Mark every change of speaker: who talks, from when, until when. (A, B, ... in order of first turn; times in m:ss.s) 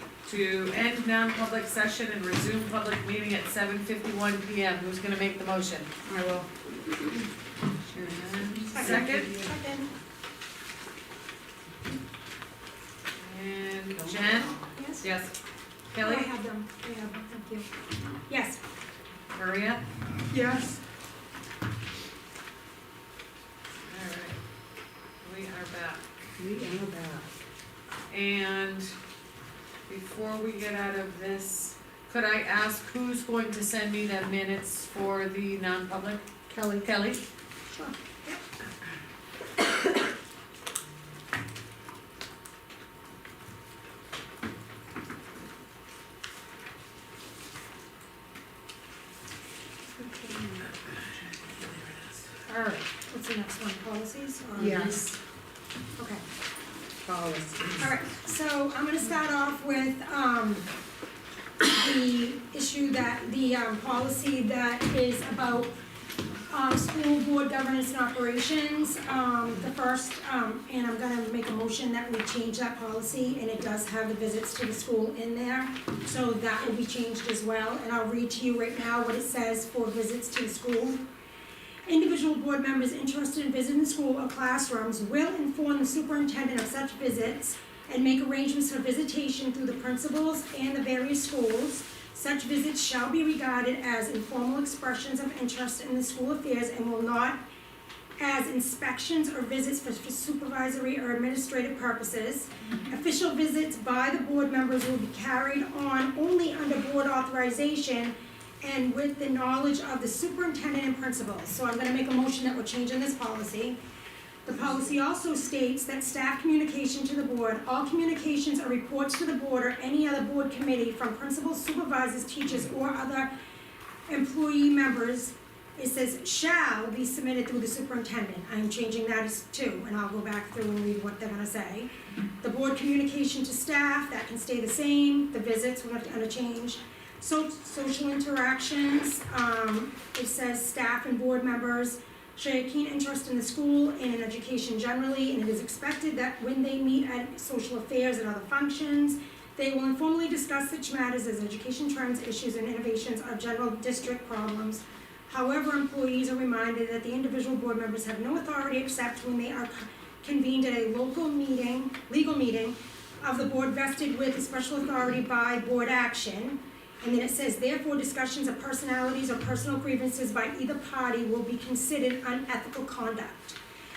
0:00.2-0:05.9 A
0:06.0-0:06.5 B
0:07.9-0:09.3 A
0:08.2-0:09.5 B
0:08.7-0:09.9 C
0:13.2-0:15.3 A
0:14.2-0:14.6 B
0:14.6-0:15.1 C
0:15.9-0:16.3 A
0:16.0-0:17.7 C
0:18.3-0:18.6 C
0:19.3-0:19.8 A
0:20.3-0:20.8 C
0:23.9-0:24.4 A
0:25.2-0:26.0 A
0:26.4-0:27.3 B
0:28.1-0:28.9 A
0:29.9-0:37.2 A
0:36.5-0:37.0 B
0:50.0-0:50.6 B
0:52.5-0:55.1 C
0:54.6-0:55.1 B
0:56.0-0:56.2 C
0:57.0-0:57.8 B
0:57.8-1:00.7 C
1:01.7-1:05.7 C
1:06.5-1:21.0 C
1:21.8-1:37.4 C
1:38.2-1:53.8 C
1:54.4-2:03.3 C
2:04.1-2:11.9 C
2:12.4-2:53.6 C